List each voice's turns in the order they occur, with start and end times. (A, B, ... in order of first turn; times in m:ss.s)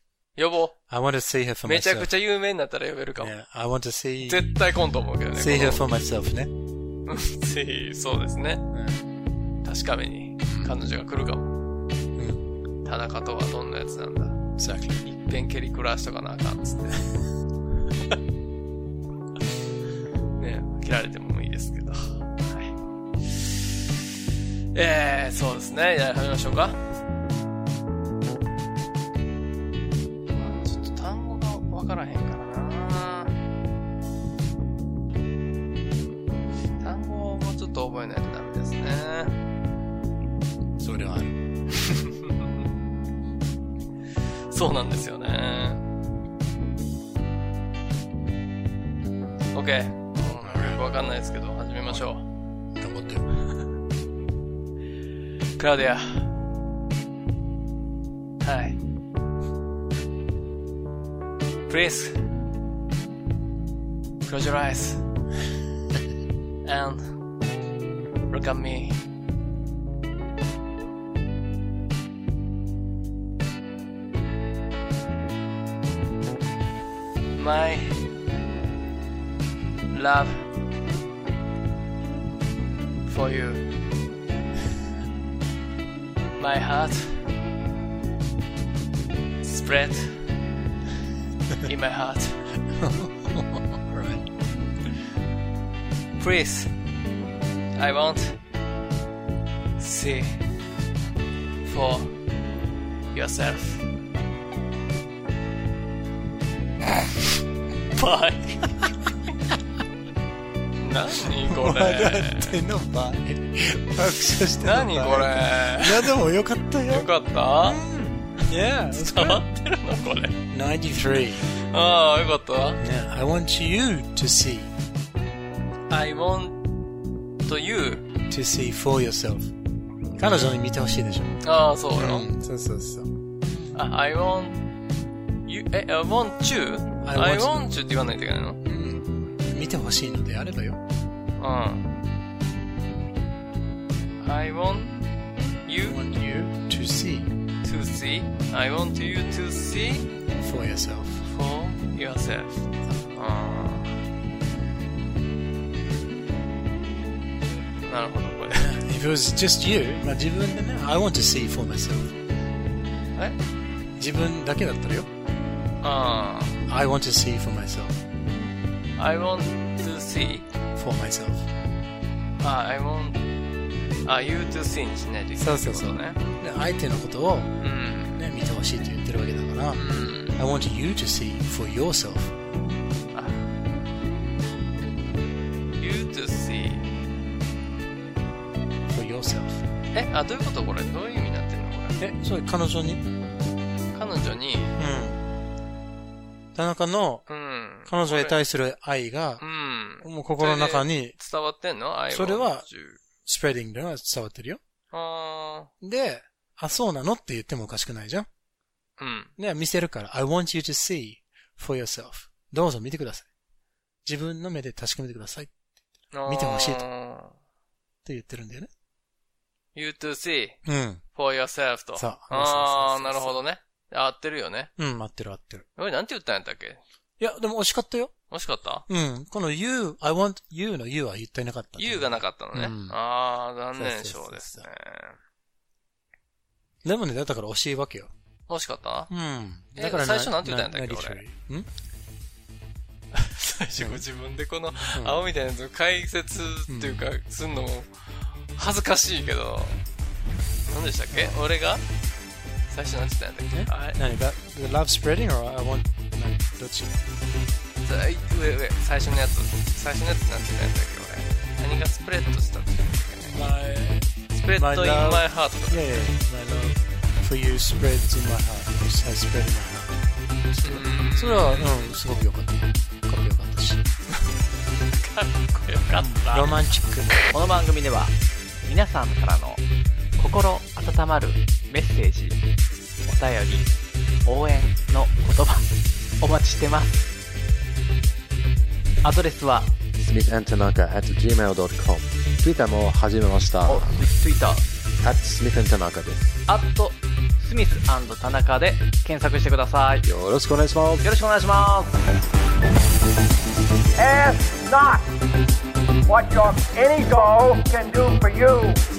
0:00.4-0:00.8 A
0:00.9-0:02.1 B
0:01.6-0:03.3 A
0:03.2-0:04.5 B
0:04.2-0:05.8 A
0:05.4-0:06.5 B
0:07.1-0:08.6 A
0:08.7-0:09.0 B
0:09.6-0:11.5 A
0:10.5-0:10.8 B
0:12.2-0:12.4 B
0:12.8-0:14.4 A
0:14.6-0:15.0 B
0:15.0-0:17.1 A
0:20.4-0:23.6 A
0:24.7-0:26.8 A
0:30.3-0:33.3 A
0:36.8-0:39.4 A
0:40.8-0:41.4 B
0:41.8-0:42.5 A
0:44.5-0:45.8 A
0:49.5-0:52.2 A
0:50.4-0:50.8 B
0:52.8-0:53.3 B
0:55.6-0:56.3 A
0:58.4-0:58.8 A
1:01.7-1:02.3 A
1:04.2-1:05.0 A
1:06.6-1:07.2 A
1:08.3-1:09.0 A
1:17.3-1:18.1 A
1:19.9-1:20.5 A
1:23.1-1:23.7 A
1:26.4-1:27.3 A
1:29.4-1:30.3 A
1:31.6-1:32.4 A
1:32.7-1:34.2 B
1:36.2-1:36.8 A
1:37.8-1:38.4 A
1:39.8-1:40.4 A
1:41.6-1:42.2 A
1:43.1-1:43.8 A
1:47.9-1:48.8 A
1:50.8-1:52.6 A
1:51.5-1:59.5 B
1:54.6-1:56.2 A
1:56.9-1:57.8 A
1:58.4-2:00.4 A
2:00.5-2:01.4 B
2:01.5-2:02.8 A
2:02.8-2:04.7 B
2:05.9-2:06.7 A
2:07.4-2:08.1 A
2:08.3-2:09.5 B
2:10.2-2:11.4 B
2:11.4-2:12.3 A
2:12.0-2:13.1 B
2:13.7-2:14.6 A
2:15.5-2:18.6 A
2:17.0-2:17.7 B
2:18.6-2:20.8 B
2:21.4-2:21.9 A
2:24.2-2:25.0 A
2:25.6-2:26.0 A
2:25.8-2:27.3 B
2:27.6-2:30.1 A
2:30.4-2:31.2 B
2:31.2-2:34.0 A
2:37.8-2:38.8 A
2:38.5-2:42.2 B
2:44.0-2:45.1 B
2:45.8-2:46.7 A
2:46.7-2:48.0 B
2:49.0-2:50.5 A
2:50.8-2:51.5 B
2:52.4-2:53.2 A
2:54.0-2:56.2 A
2:55.4-2:57.6 B
2:57.6-2:58.2 A
2:58.2-3:02.3 B
2:59.8-3:00.4 A
3:03.1-3:03.5 A
3:05.8-3:06.9 A
3:08.9-3:09.6 B
3:09.9-3:12.0 A
3:12.0-3:13.0 B
3:13.9-3:14.8 A
3:14.8-3:15.2 B
3:16.5-3:17.3 B
3:17.3-3:18.4 A
3:17.8-3:19.4 B
3:19.4-3:23.0 A
3:20.0-3:21.2 B
3:22.1-3:22.7 B
3:23.2-3:24.6 B
3:24.9-3:25.7 A
3:25.8-3:28.3 B
3:29.0-3:29.3 A
3:29.4-3:33.3 B
3:34.0-3:35.6 B
3:36.1-3:37.4 A
3:36.2-3:36.8 B
3:38.0-3:38.7 B
3:39.8-3:40.6 A
3:40.6-3:41.0 B
3:41.2-3:44.7 A
3:42.0-3:43.4 B
3:44.8-3:45.7 B
3:45.8-3:46.8 A
3:47.2-3:48.1 B
3:48.3-3:48.9 A
3:48.9-3:53.0 B
3:51.8-3:55.2 A
3:53.8-3:54.7 B
3:56.8-3:58.1 B
3:58.5-3:59.1 A
3:59.1-4:01.7 B
3:59.8-4:01.2 A
4:03.1-4:07.9 A
4:03.8-4:04.0 B
4:04.9-4:05.2 B
4:06.7-4:07.0 B
4:08.5-4:09.8 A
4:10.7-4:11.8 A
4:12.7-4:14.0 A
4:13.5-4:17.0 B
4:17.8-4:26.2 A
4:23.2-4:23.6 B
4:24.6-4:33.8 B
4:30.6-4:31.9 A
4:34.9-4:36.5 A
4:35.9-4:37.1 B
4:37.3-4:39.6 C
4:40.2-4:42.4 C
4:43.0-4:43.7 C
4:44.2-4:47.2 C
4:49.0-4:49.8 C
4:50.0-4:53.9 D
4:53.7-4:54.7 C
4:55.0-4:56.3 D
4:56.5-5:00.1 C
5:00.0-5:01.1 D
5:01.0-5:02.0 C
5:04.0-5:05.1 E
5:06.0-5:08.8 E